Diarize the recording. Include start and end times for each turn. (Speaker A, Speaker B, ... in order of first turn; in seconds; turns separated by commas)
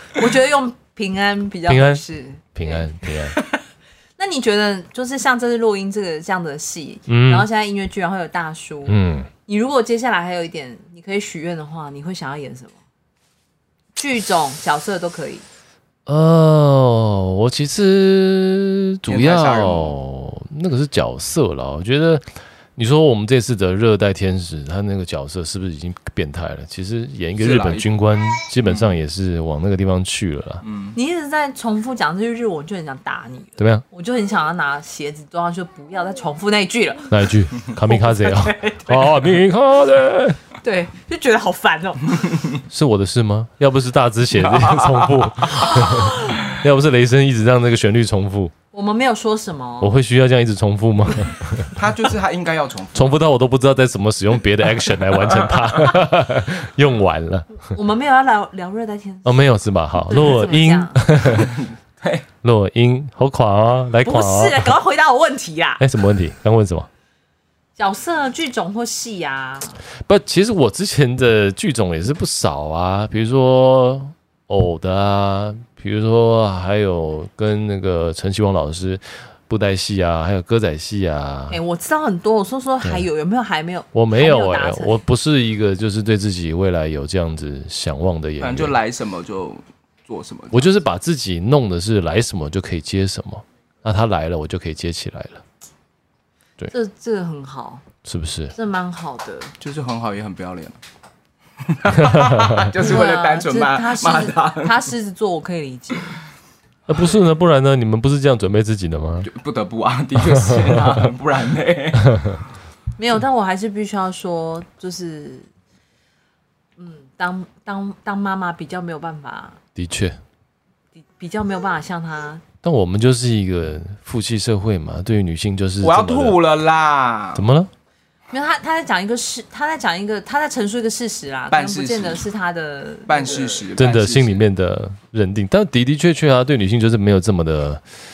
Speaker A: 0.1-3.6, Speaker B: 1.7-2.0, Speaker B: 2.5-3.4, Speaker A: 4.2-12.8, Speaker B: 7.1-7.5, Speaker B: 8.9-9.3, Speaker A: 13.9-15.4, Speaker B: 16.1-22.2, Speaker C: 19.1-20.0, Speaker B: 22.8-30.6, Speaker C: 27.4-27.9, Speaker C: 28.6-28.9, Speaker C: 30.6-31.0, Speaker A: 30.9-39.1, Speaker B: 33.6-33.8, Speaker B: 37.1-40.4, Speaker A: 40.6-42.5, Speaker B: 42.7-48.5, Speaker C: 44.4-45.3, Speaker A: 45.7-46.2, Speaker A: 48.7-49.9, Speaker B: 49.8-51.8, Speaker C: 51.7-53.2, Speaker B: 52.9-57.7, Speaker C: 55.2-56.0, Speaker A: 57.7-61.1, Speaker B: 59.2-61.6, Speaker C: 61.2-62.3, Speaker B: 62.4-64.8, Speaker A: 64.0-65.8, Speaker B: 65.8-66.9, Speaker A: 67.8-69.8, Speaker B: 70.1-81.6, Speaker A: 81.5-85.0, Speaker B: 82.8-83.1, Speaker B: 83.9-88.8, Speaker C: 88.4-90.7, Speaker B: 90.5-95.4, Speaker A: 96.7-97.8, Speaker B: 98.0-98.5, Speaker A: 98.5-99.5, Speaker C: 99.6-100.8, Speaker C: 101.6-104.9, Speaker B: 102.0-102.6, Speaker A: 102.8-106.2, Speaker B: 106.9-109.3, Speaker C: 109.2-112.3, Speaker B: 110.3-111.0, Speaker A: 113.0-115.5, Speaker A: 116.8-119.6, Speaker B: 119.8-120.2, Speaker A: 121.0-122.4, Speaker B: 122.6-126.4, Speaker C: 125.8-127.5, Speaker B: 127.3-127.7, Speaker A: 128.3-133.6, Speaker C: 131.5-132.2, Speaker C: 133.1-134.4, Speaker B: 133.8-137.8